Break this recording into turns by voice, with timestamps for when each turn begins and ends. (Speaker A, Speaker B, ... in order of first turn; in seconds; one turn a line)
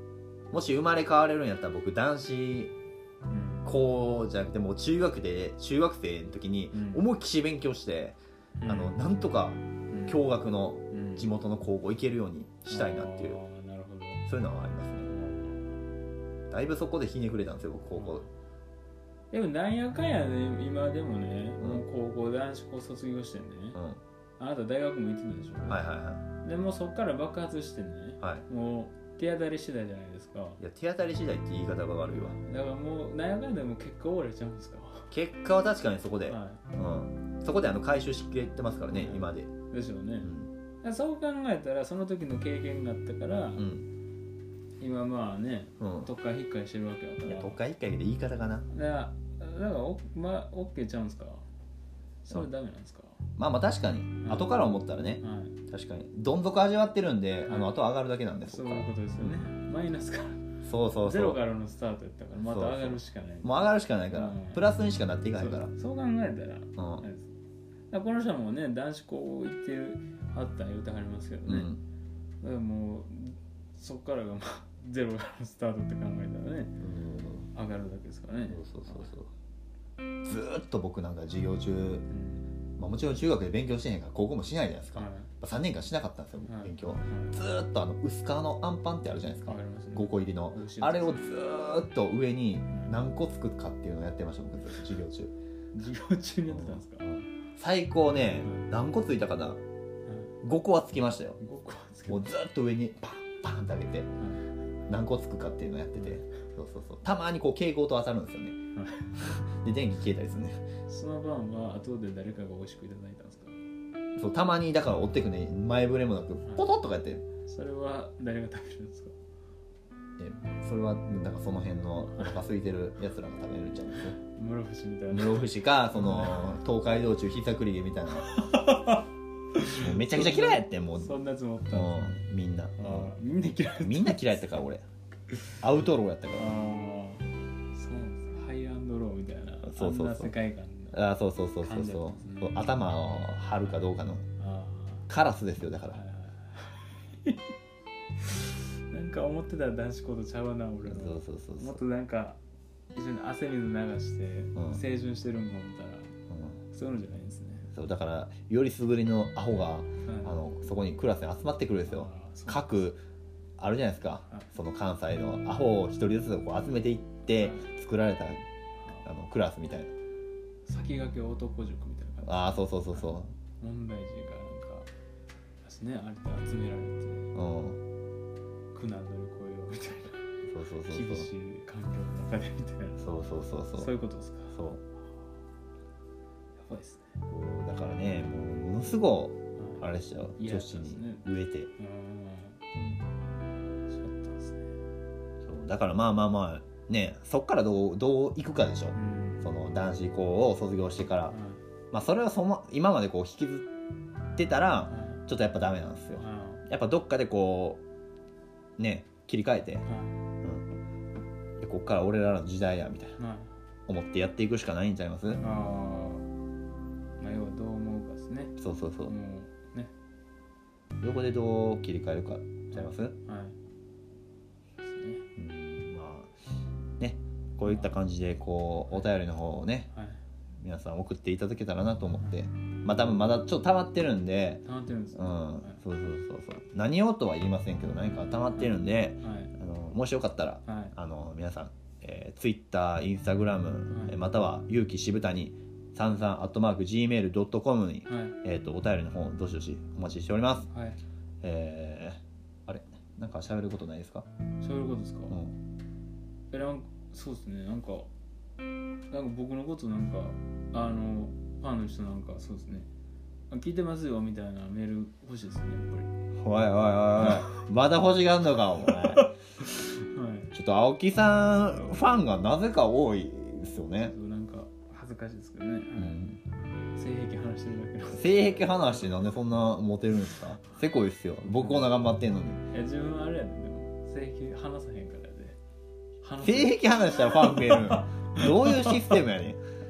Speaker A: 0.5-2.7
Speaker B: 3.3-3.7
Speaker A: 3.6-13.4
Speaker B: 6.7-7.0
Speaker B: 8.6-9.0
Speaker B: 9.9-10.2
Speaker B: 10.9-11.3
Speaker B: 12.7-14.2
Speaker A: 14.3-15.1
Speaker B: 15.0-15.9
Speaker A: 16.5-18.2
Speaker B: 17.9-18.3
Speaker B: 19.3-23.8
Speaker A: 23.7-24.0
Speaker B: 24.4-25.8
Speaker A: 25.7-26.2
Speaker B: 26.4-30.6
Speaker A: 28.2-28.4
Speaker A: 30.6-32.3
Speaker B: 32.1-35.1
Speaker A: 35.1-39.5
Speaker B: 36.3-36.6
Speaker B: 38.9-40.3
Speaker A: 40.2-40.5
Speaker B: 40.8-43.7
Speaker A: 43.6-43.9
Speaker B: 44.8-47.6
Speaker A: 45.8-46.1
Speaker A: 47.2-48.7
Speaker B: 48.7-51.4
Speaker B: 52.2-53.2
Speaker A: 53.4-59.5
Speaker B: 54.2-54.6
Speaker B: 55.2-55.5
Speaker B: 57.4-57.7
Speaker B: 58.4-60.4
Speaker A: 60.6-61.4
Speaker B: 61.0-64.6
Speaker A: 62.5-65.7
Speaker B: 65.3-67.3
Speaker A: 66.8-67.0
Speaker B: 67.9-71.7
Speaker A: 71.5-71.8
Speaker B: 72.4-76.7
Speaker A: 76.8-77.5
Speaker B: 77.5-79.1
Speaker A: 78.5-79.3
Speaker A: 80.2-82.0
Speaker B: 82.1-82.5
Speaker A: 82.8-95.3
Speaker B: 84.9-85.3
Speaker B: 86.5-87.4
Speaker B: 89.5-91.2
Speaker B: 92.7-92.9
Speaker B: 95.7-97.1
Speaker A: 96.5-99.6
Speaker B: 98.4-98.7
Speaker B: 100.1-100.3
Speaker A: 100.4-101.4
Speaker B: 101.4-102.3
Speaker A: 102.1-104.1
Speaker A: 104.9-108.6
Speaker B: 108.7-109.4
Speaker A: 109.2-110.6
Speaker B: 110.9-113.6
Speaker A: 114.2-117.2
Speaker B: 117.4-119.1
Speaker A: 120.2-124.2
Speaker B: 122.1-122.4
Speaker B: 124.2-126.5
Speaker A: 125.1-128.3
Speaker B: 128.2-132.2
Speaker A: 129.8-131.2
Speaker A: 131.7-133.1
Speaker B: 132.8-134.4
Speaker A: 133.8-134.8
Speaker A: 135.6-136.5
Speaker B: 136.4-141.0
Speaker A: 139.6-140.3
Speaker A: 140.9-144.2
Speaker B: 141.6-142.7
Speaker B: 144.4-145.1
Speaker A: 145.1-146.0
Speaker B: 145.9-147.5
Speaker B: 148.2-152.4
Speaker A: 150.8-151.8
Speaker B: 152.9-156.1
Speaker A: 154.6-154.8
Speaker A: 156.3-156.6
Speaker B: 156.7-157.7
Speaker A: 157.7-163.0
Speaker B: 160.0-160.4
Speaker B: 161.9-162.8
Speaker A: 163.6-168.4
Speaker B: 167.3-167.7
Speaker B: 168.8-169.1
Speaker A: 169.0-169.9
Speaker B: 170.7-174.9
Speaker A: 172.2-173.3
Speaker B: 175.6-177.3
Speaker A: 177.3-177.8
Speaker B: 178.7-180.2
Speaker A: 180.5-181.3
Speaker B: 180.9-183.1
Speaker A: 183.0-183.9
Speaker B: 183.8-184.6
Speaker A: 184.5-184.8
Speaker B: 186.6-187.2
Speaker A: 187.3-191.7
Speaker B: 190.4-191.2
Speaker B: 191.8-192.6
Speaker A: 192.7-193.0
Speaker B: 193.8-194.8
Speaker A: 195.4-201.3
Speaker B: 198.9-199.5
Speaker B: 201.3-201.6
Speaker A: 201.9-203.7
Speaker A: 204.3-207.8
Speaker B: 204.9-205.2
Speaker B: 206.1-206.6
Speaker A: 208.8-209.9
Speaker B: 209.8-210.2
Speaker A: 211.6-213.2
Speaker B: 213.2-213.5
Speaker A: 213.9-215.4
Speaker B: 215.4-216.2
Speaker B: 217.2-219.9
Speaker A: 218.6-219.1
Speaker A: 221.0-223.1
Speaker B: 222.7-223.6
Speaker B: 224.8-225.2
Speaker A: 225.4-226.3
Speaker A: 227.0-229.9
Speaker B: 227.6-227.9
Speaker B: 229.9-230.2
Speaker A: 230.6-234.6
Speaker B: 234.6-235.8
Speaker A: 235.1-250.7
Speaker B: 238.6-239.5
Speaker B: 240.7-240.9
Speaker B: 243.9-244.2
Speaker B: 248.1-248.4
Speaker B: 250.7-251.0
Speaker A: 251.4-254.2
Speaker B: 254.6-255.4
Speaker B: 256.5-258.1
Speaker B: 259.1-262.9
Speaker B: 263.5-266.1
Speaker A: 266.4-269.3
Speaker B: 267.2-267.6
Speaker B: 268.9-270.5
Speaker A: 270.5-274.1
Speaker B: 274.0-276.2
Speaker A: 275.9-276.4
Speaker B: 276.9-278.4
Speaker A: 278.1-282.6
Speaker B: 281.5-281.9
Speaker B: 282.7-285.6
Speaker B: 286.2-289.2
Speaker A: 286.4-289.6